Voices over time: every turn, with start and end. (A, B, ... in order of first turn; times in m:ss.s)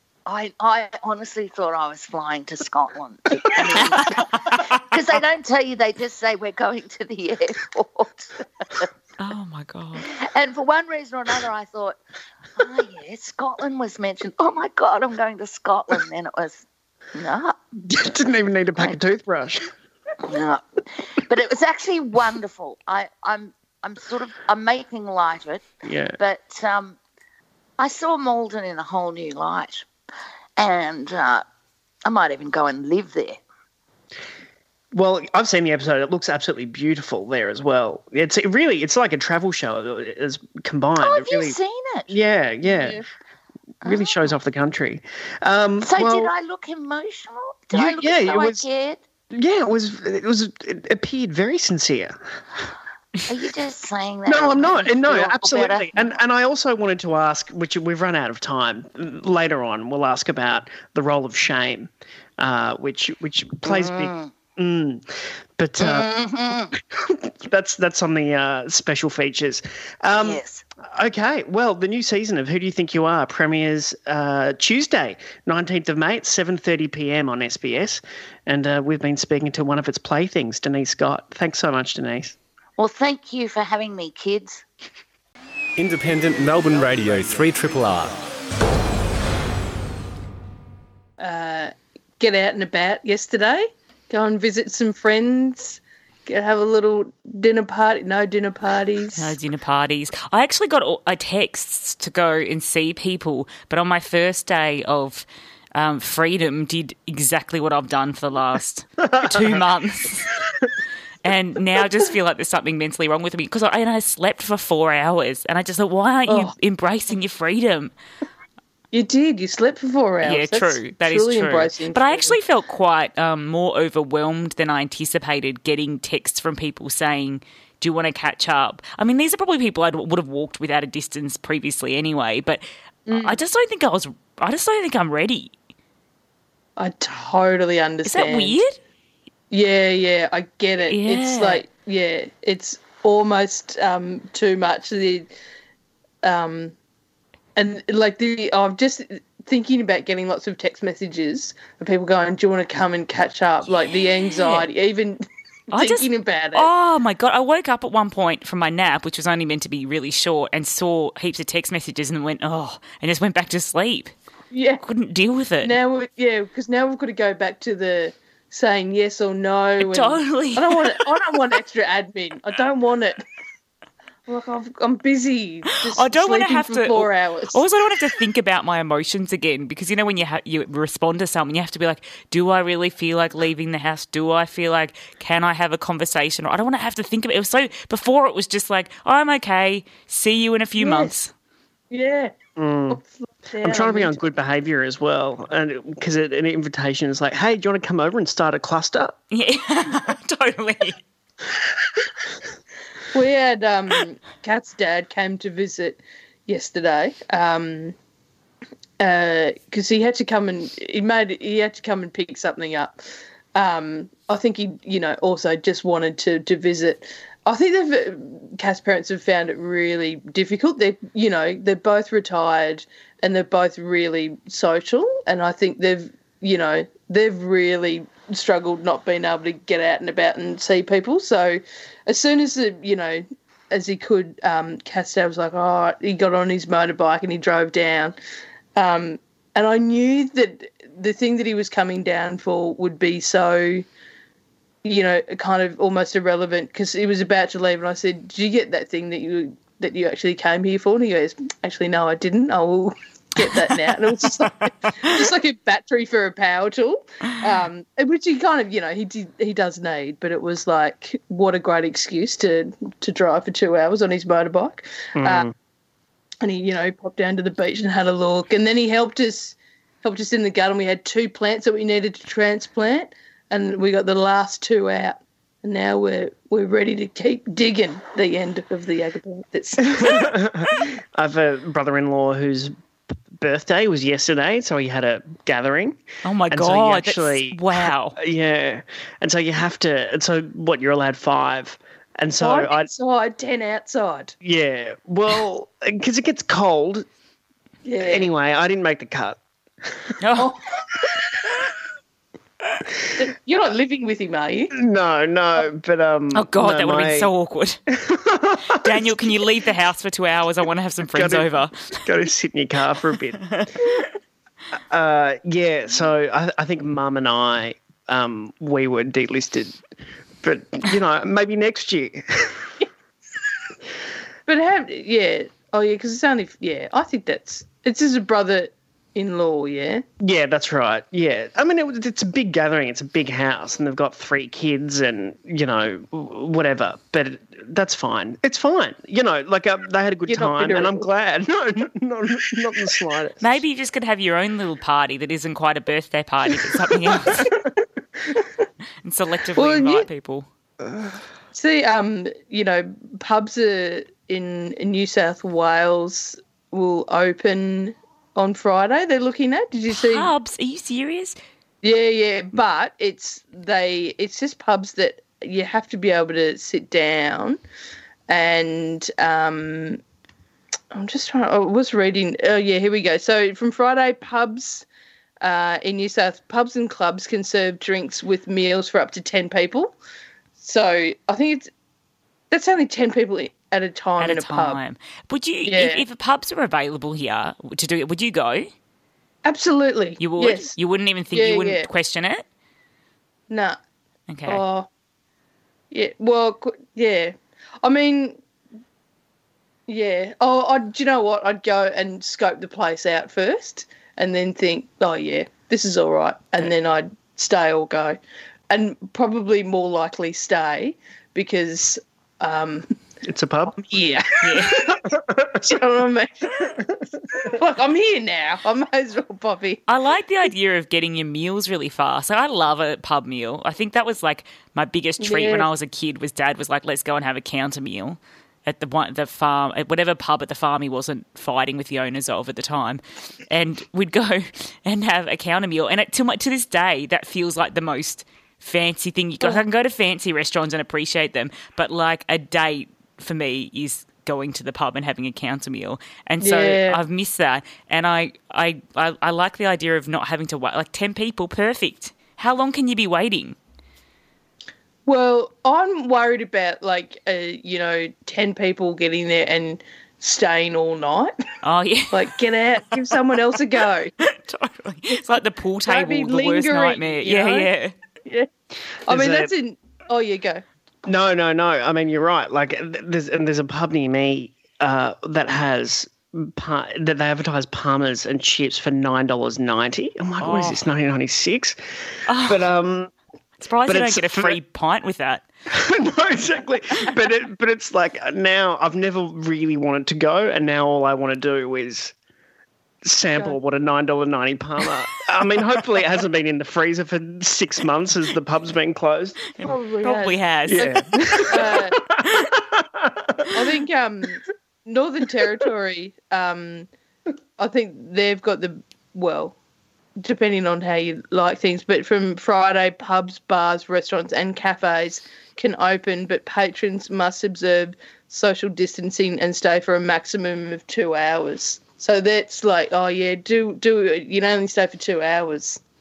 0:00.2-0:08.9 A
0:09.2-0:10.1 B
0:10.0-0:12.0 A
0:12.6-0:17.6 A
0:17.9-0:19.7 C
0:20.2-0:25.6 A
0:25.8-0:26.2 C
0:26.2-0:27.0 A
0:27.8-0:29.8 A
0:30.6-0:31.4 A
0:32.1-0:33.4 A
0:34.9-0:41.6 C
0:41.0-0:42.2 A
0:42.1-0:43.0 C
0:43.8-0:46.3 C
0:43.8-0:44.3 A
0:45.8-0:49.0 A
0:47.7-0:48.6 C
0:49.3-0:52.2 C
0:53.3-0:56.0 A
0:54.3-1:06.1 C
1:03.6-1:04.3 A
1:05.8-1:06.7 A
1:06.7-1:22.4 C
1:10.2-1:10.6 A
1:22.8-1:24.6 A
1:25.8-1:28.1 D
1:31.2-1:39.4 E
1:39.2-1:50.3 B
1:49.1-1:49.5 C
1:51.2-1:57.9 B
1:58.9-2:02.4 E
2:00.2-2:15.5 B
2:13.1-2:13.4 E
2:16.8-2:18.6 E
2:18.0-2:18.8 B
2:19.5-2:25.3 E
2:20.9-2:21.6 B
2:26.2-2:26.7 E
2:27.6-2:35.2 E
2:34.3-2:34.7 B
2:35.7-2:44.1 B
2:35.7-2:36.7 E
2:44.5-2:44.8 E
2:44.8-2:45.7 B
2:45.6-2:53.2 E
2:49.8-2:51.2 B
2:54.3-2:57.6 E
2:55.9-3:11.3 B
3:10.8-3:11.1 E
3:11.9-3:12.3 E
3:12.6-3:13.0 C
3:12.9-3:14.1 E
3:13.6-3:19.2 C
3:19.3-3:21.0 B
3:23.1-3:28.0 E
3:29.0-3:33.0 E
3:33.5-3:58.2 E
3:58.8-4:03.8 E
4:04.8-4:25.5 E
4:25.2-4:25.5 C
4:26.4-4:40.3 E
4:39.9-4:42.7 C
4:43.3-4:52.9 C
4:46.2-4:48.1 B
4:52.4-4:54.3 E
4:54.4-4:57.1 C
4:57.8-4:58.3 E
4:58.0-4:59.4 C
5:00.2-5:00.5 B
5:00.4-5:00.6 E
5:03.2-5:04.7 E
5:04.7-5:07.3 C
5:06.3-5:07.8 B
5:07.9-5:09.1 C
5:08.7-5:12.0 B
5:11.1-5:13.6 C
5:14.9-5:19.8 C
5:20.4-5:22.7 C
5:24.5-5:30.0 E
5:30.2-5:43.5 C
5:40.3-5:41.0 E
5:43.4-5:47.5 B
5:49.0-5:50.5 B
5:49.5-5:50.1 E
5:50.8-5:51.2 C
5:51.5-6:00.3 E
5:59.9-6:01.4 B
6:01.8-6:07.6 E
6:08.3-6:10.0 E
6:10.9-6:14.8 E
6:15.4-6:20.0 E
6:20.6-6:21.7 E
6:22.5-6:24.8 E
6:24.2-6:28.7 B
6:25.6-6:26.0 E
6:29.4-6:30.7 E
6:30.2-6:32.4 B
6:31.3-6:31.9 E
6:33.5-6:33.8 E
6:34.3-6:34.6 B
6:34.5-6:34.9 E
6:35.9-6:38.4 E
6:39.9-6:52.9 E
6:53.2-6:53.9 C
6:53.8-6:54.3 E
6:54.4-6:54.8 B
6:54.8-6:55.6 C
6:55.6-6:56.4 E
6:57.4-6:59.8 E
6:59.9-7:33.6 B
7:05.2-7:05.7 E
7:26.4-7:27.0 E
7:35.0-7:41.3 E
7:41.6-7:42.2 B
7:42.1-7:44.1 E
7:44.2-7:47.9 B
7:45.8-7:47.7 E
7:49.0-7:50.6 E
7:49.1-7:49.5 C
7:51.0-8:01.8 C
8:00.4-8:00.8 B
8:02.3-8:02.6 B
8:02.4-8:03.1 C
8:03.6-8:05.4 B
8:03.8-8:04.6 C
8:05.7-8:12.1 C
8:13.0-8:19.4 C
8:19.6-8:21.8 B
8:19.6-8:22.0 E
8:20.7-8:23.6 C
8:23.5-8:26.9 E
8:27.6-8:29.6 E
8:30.2-8:45.8 E